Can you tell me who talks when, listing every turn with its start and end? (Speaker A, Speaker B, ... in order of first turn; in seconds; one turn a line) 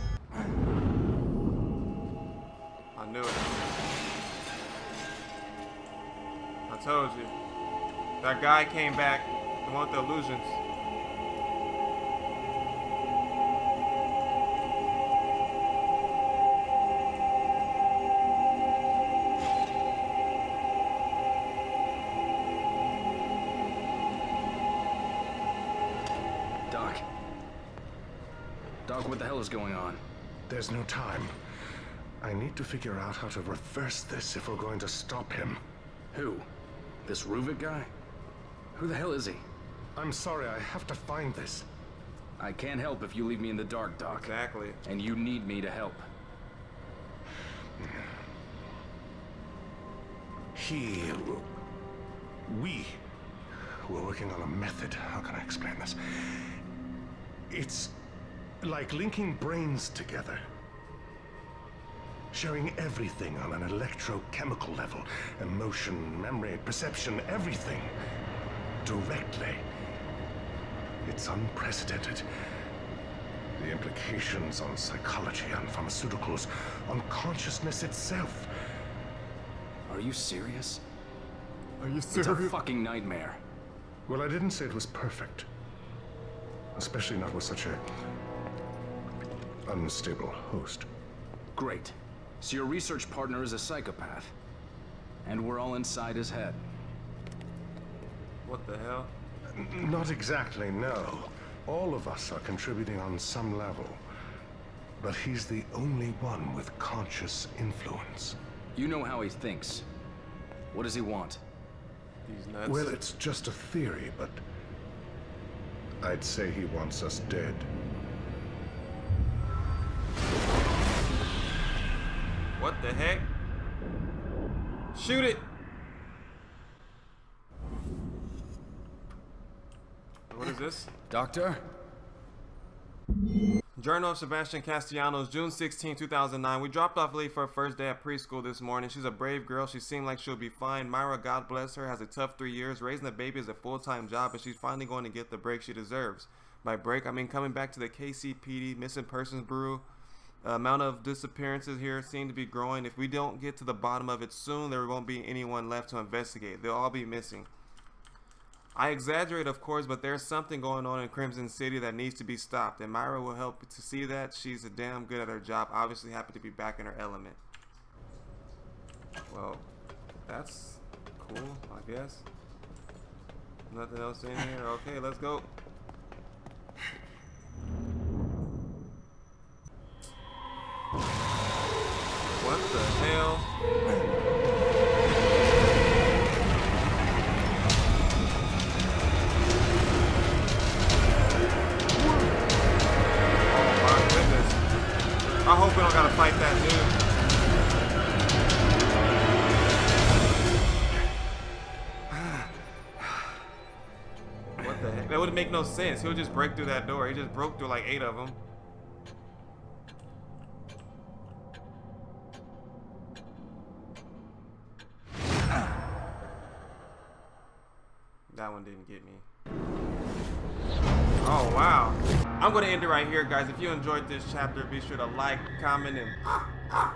Speaker A: 2.9-3.8
Speaker A: 6.7-7.3
Speaker A: 8.2-10.6
Speaker B: 26.7-27.0
Speaker B: 28.9-30.0
Speaker C: 30.5-31.3
Speaker C: 32.2-35.6
Speaker B: 36.1-36.5
Speaker B: 37.0-37.9
Speaker B: 38.7-39.4
Speaker C: 40.0-41.7
Speaker B: 42.4-46.0
Speaker A: 44.1-44.8
Speaker C: 47.8-48.0
Speaker C: 50.5-51.5
Speaker C: 52.5-53.0
Speaker C: 53.7-56.2
Speaker C: 57.5-57.9
Speaker C: 58.6-60.4
Speaker C: 62.3-67.9
Speaker C: 68.8-69.6
Speaker C: 71.0-72.2
Speaker C: 73.6-78.5
Speaker B: 79.9-80.8
Speaker A: 81.8-82.6
Speaker B: 82.1-83.4
Speaker C: 84.1-85.5
Speaker C: 86.7-87.8
Speaker C: 89.7-90.9
Speaker B: 91.5-94.3
Speaker B: 95.2-96.6
Speaker A: 98.4-99.1
Speaker C: 99.5-104.0
Speaker C: 105.0-108.4
Speaker B: 108.7-109.8
Speaker B: 110.7-111.4
Speaker A: 112.2-113.0
Speaker C: 112.6-114.4
Speaker C: 116.0-117.7
Speaker A: 122.6-123.3
Speaker A: 124.9-125.4
Speaker A: 130.3-130.9
Speaker B: 131.1-131.6
Speaker A: 133.8-149.8
Speaker A: 150.4-157.5
Speaker A: 158.7-167.4
Speaker A: 169.3-169.7
Speaker A: 170.3-172.2
Speaker A: 173.7-175.5
Speaker A: 182.3-183.5
Speaker A: 193.5-194.6
Speaker A: 195.4-196.9
Speaker A: 204.6-208.4
Speaker A: 218.3-219.2
Speaker A: 221.2-226.2